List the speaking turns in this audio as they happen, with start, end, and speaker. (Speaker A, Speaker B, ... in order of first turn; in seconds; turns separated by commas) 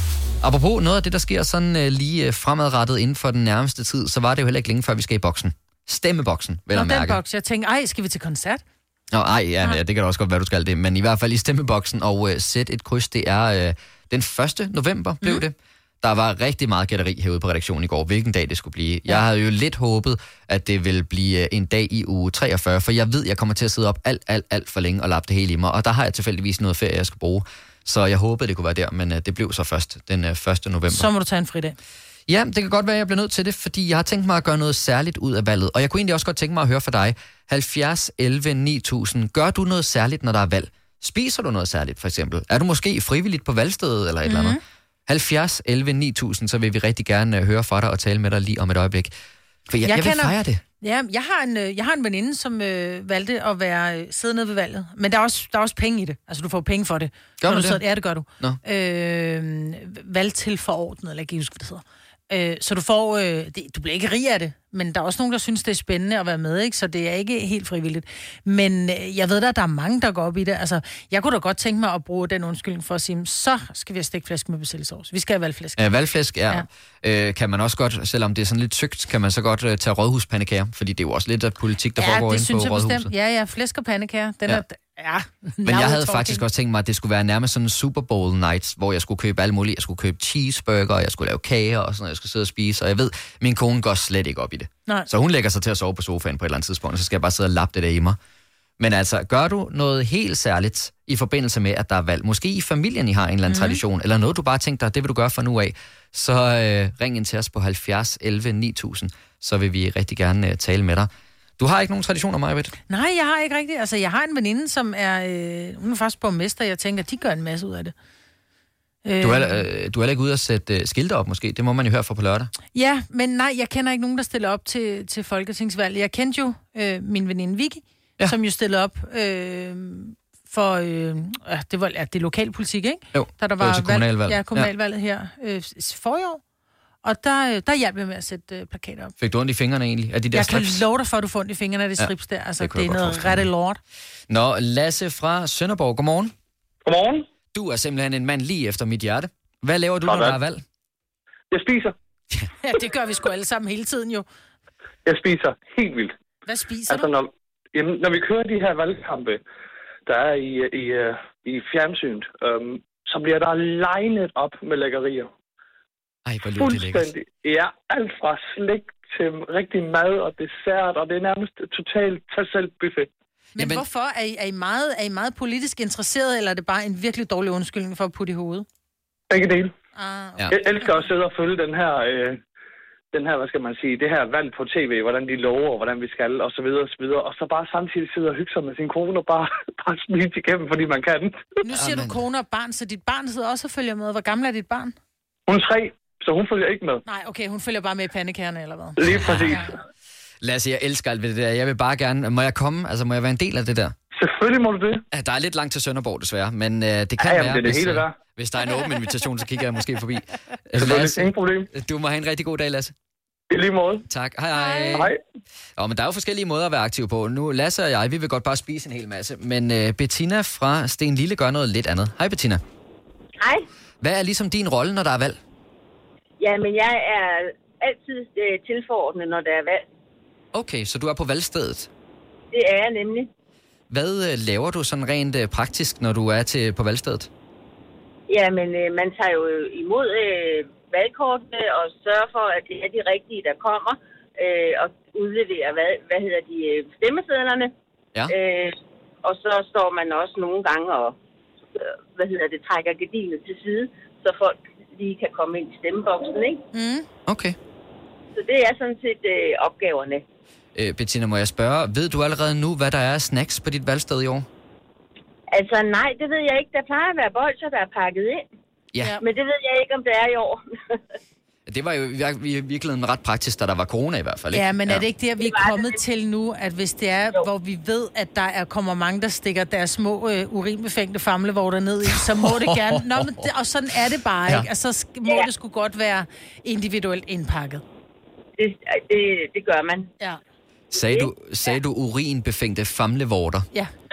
Speaker A: 0.4-7.2, Speaker B: 6.7-8.6, Speaker A: 9.1-31.1, Speaker B: 30.9-31.8, Speaker A: 32.3-49.1, Speaker B: 44.2-44.6, Speaker A: 49.7-50.6, Speaker B: 49.8-75.8, Speaker A: 57.4-57.8, Speaker A: 75.8-83.1, Speaker B: 82.0-86.4, Speaker A: 85.7-98.2, Speaker A: 98.8-112.7, Speaker B: 103.5-103.8, Speaker B: 112.9-117.9, Speaker B: 119.0-119.6, Speaker A: 119.2-122.5, Speaker B: 122.7-136.4, Speaker A: 133.1-134.7, Speaker B: 137.0-139.1, Speaker A: 139.2-140.9, Speaker B: 140.3-143.8, Speaker A: 142.0-143.5, Speaker A: 144.3-146.3, Speaker C: 146.8-147.3, Speaker A: 147.5-150.6, Speaker C: 150.1-150.4, Speaker C: 151.5-151.9, Speaker B: 152.6-154.3, Speaker C: 155.1-156.1, Speaker B: 156.5-157.1, Speaker C: 156.9-159.4, Speaker C: 160.1-165.3, Speaker A: 166.2-167.1, Speaker C: 166.6-173.1, Speaker B: 173.6-178.7, Speaker A: 173.6-173.8, Speaker C: 179.3-179.7, Speaker B: 180.0-180.5, Speaker C: 180.5-182.4, Speaker C: 183.1-191.4, Speaker B: 191.6-195.0, Speaker A: 191.7-192.2, Speaker C: 195.5-197.0, Speaker B: 197.1-199.0, Speaker C: 199.0-199.8, Speaker A: 200.4-203.9, Speaker C: 204.1-205.0, Speaker A: 205.1-212.9, Speaker C: 207.2-208.1, Speaker C: 210.8-211.7, Speaker C: 213.5-214.1, Speaker A: 214.1-215.1, Speaker B: 214.5-215.1, Speaker C: 214.9-215.2, Speaker A: 215.8-222.6, Speaker D: 223.4-223.7, Speaker A: 224.0-225.4, Speaker D: 226.4-229.8, Speaker A: 230.5-231.9, Speaker D: 232.5-233.3, Speaker A: 233.9-237.3, Speaker D: 238.3-247.7, Speaker D: 248.3-251.2, Speaker D: 251.8-256.6, Speaker B: 256.7-257.1, Speaker A: 257.3-257.6, Speaker D: 258.4-260.2, Speaker A: 260.8-264.5, Speaker D: 265.5-268.4, Speaker A: 268.9-269.2, Speaker D: 269.2-271.0, Speaker A: 271.7-275.1, Speaker B: 274.5-287.8, Speaker D: 275.4-276.0, Speaker A: 282.1-283.5, Speaker D: 288.6-290.1, Speaker A: 290.9-293.7, Speaker D: 291.0-291.3